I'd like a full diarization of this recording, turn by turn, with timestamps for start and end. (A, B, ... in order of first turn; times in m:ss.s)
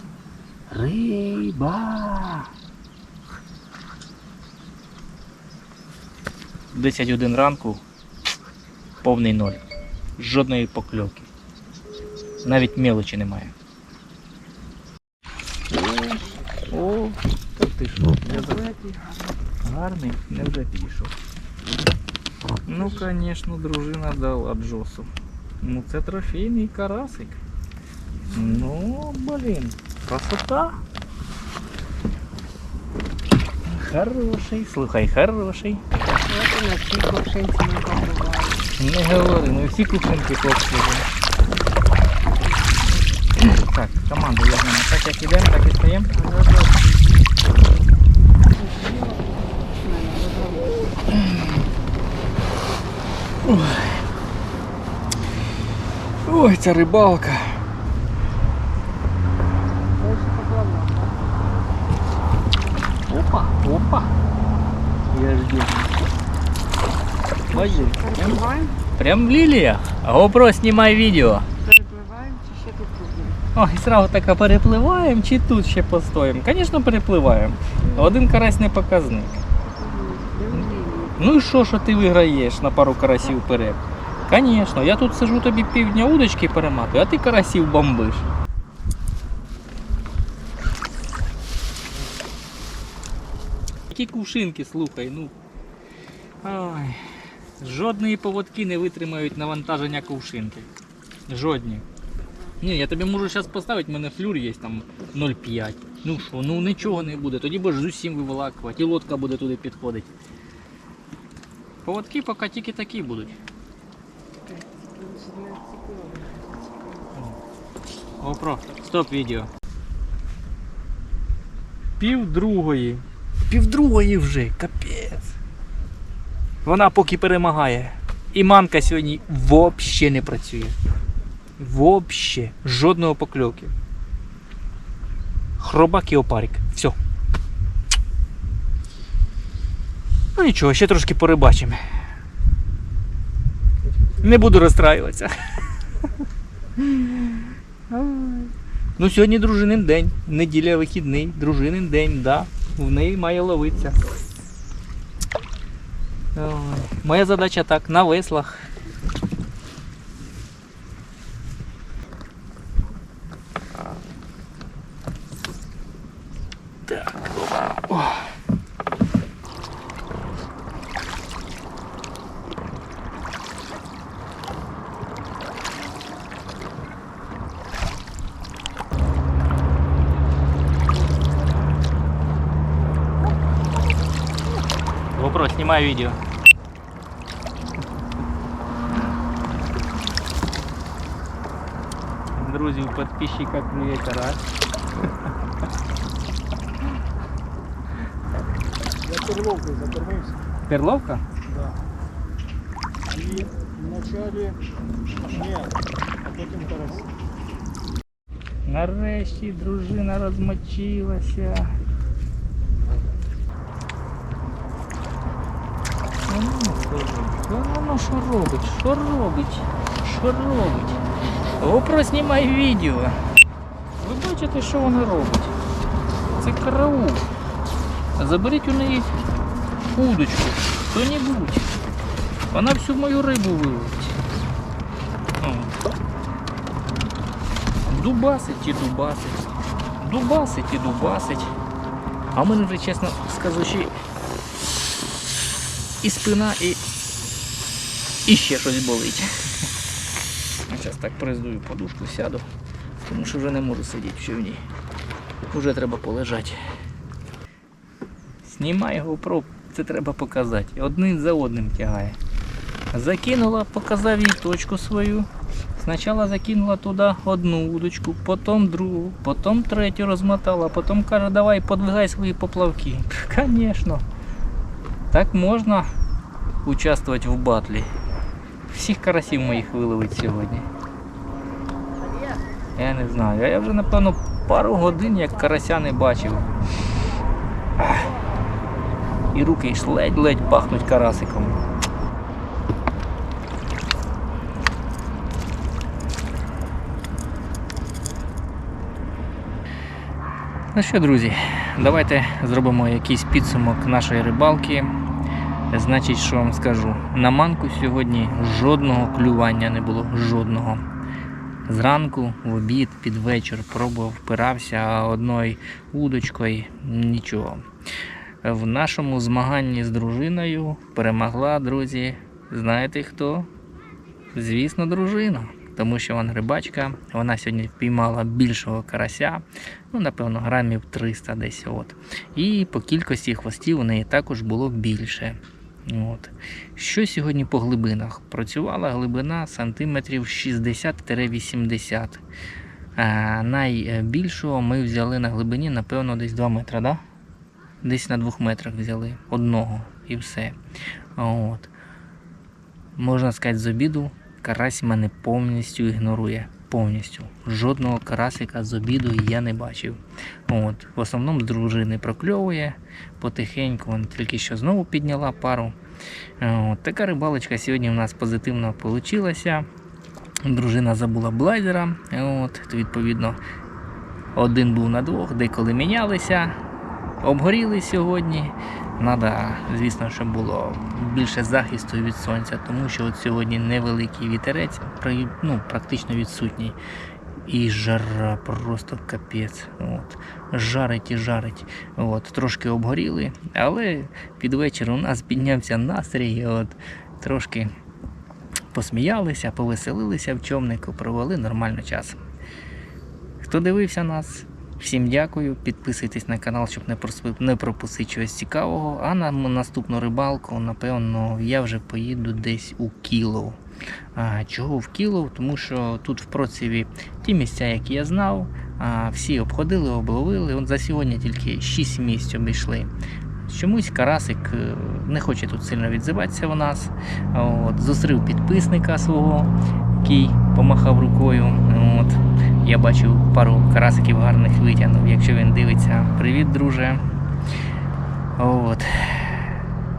0:00.7-0:02.5 A
0:06.7-0:07.8 A
0:09.0-0:09.6 A
0:10.2-0:11.3 A
0:12.4-0:13.5 A
0:15.7-0:18.7 A
0:18.2-0:19.4 B
0:19.6-0:21.1 A
0:22.6-0:27.4 A
0:28.3-0:30.8 A
0:28.3-0:28.7 B
0:33.6-0:35.8 A
0:36.2-0:38.6 B
0:38.8-0:41.1 A
0:43.4-0:46.1 A
0:46.1-0:47.1 B
0:48.5-0:50.8 B
0:51.1-0:51.5 A
0:53.4-0:54.0 A
0:56.2-0:57.6 A
1:00.0-1:01.2 B
1:03.0-1:04.1 A
1:05.1-1:05.9 A
1:07.5-1:11.5 A
1:07.5-1:08.8 B
1:11.6-1:13.4 B
1:13.5-1:19.4 A
1:17.9-1:18.2 B
1:19.6-1:21.3 B
1:20.5-1:28.3 A
1:33.9-1:35.3 A
1:36.4-1:37.0 A
1:37.6-1:40.7 A
1:41.3-1:41.8 A
1:42.6-1:50.1 A
1:51.8-1:53.4 A
1:54.4-1:57.1 B
1:57.1-1:57.4 A
1:58.2-1:59.5 A
2:02.0-2:05.3 A
2:06.6-2:10.8 A
2:11.6-2:13.7 A
2:15.6-2:17.0 A
2:20.3-2:21.8 A
2:24.2-2:25.3 A
2:26.8-2:27.4 A
2:27.9-2:28.5 B
2:29.0-2:34.0 A
2:36.3-2:38.6 A
2:46.9-2:48.3 A
3:05.1-3:06.2 A
3:12.3-3:14.4 A
3:19.1-3:20.3 C
3:20.6-3:21.2 A
3:23.2-3:24.6 C
3:26.4-3:27.0 C
3:28.6-3:31.7 A
3:36.3-3:41.0 A
3:41.6-3:43.2 A
3:44.0-3:45.5 A
3:46.3-3:47.3 A
3:48.2-3:49.1 A
3:49.9-3:51.7 A
3:52.5-3:54.2 A
3:55.4-3:55.8 A
3:57.9-3:59.4 A
4:00.0-4:01.5 A
4:02.3-4:03.9 A
4:06.0-4:06.8 A
4:08.2-4:09.3 A
4:10.7-4:12.4 A
4:13.0-4:14.6 A
4:15.5-4:16.6 A
4:18.4-4:22.2 A
4:22.9-4:34.0 A
4:35.1-4:35.9 A
4:36.6-4:37.9 A
4:38.7-4:40.7 A
4:42.8-4:46.4 A
4:49.3-4:51.6 A
5:00.7-5:04.9 A
5:05.7-5:10.8 A
5:11.7-5:17.6 A
5:18.4-5:23.5 A
5:24.3-5:42.2 A
5:43.0-5:47.0 A
5:47.8-5:50.6 A
5:51.2-5:51.7 A
5:53.0-6:05.8 A
6:06.4-6:09.7 A
6:10.4-6:13.4 A
6:14.3-6:16.6 A
6:17.2-6:26.8 A
6:27.4-6:37.7 A
6:38.7-6:42.2 A
6:43.4-6:53.6 A
6:54.1-7:02.9 A
7:03.5-7:17.0 A
7:18.4-7:19.5 A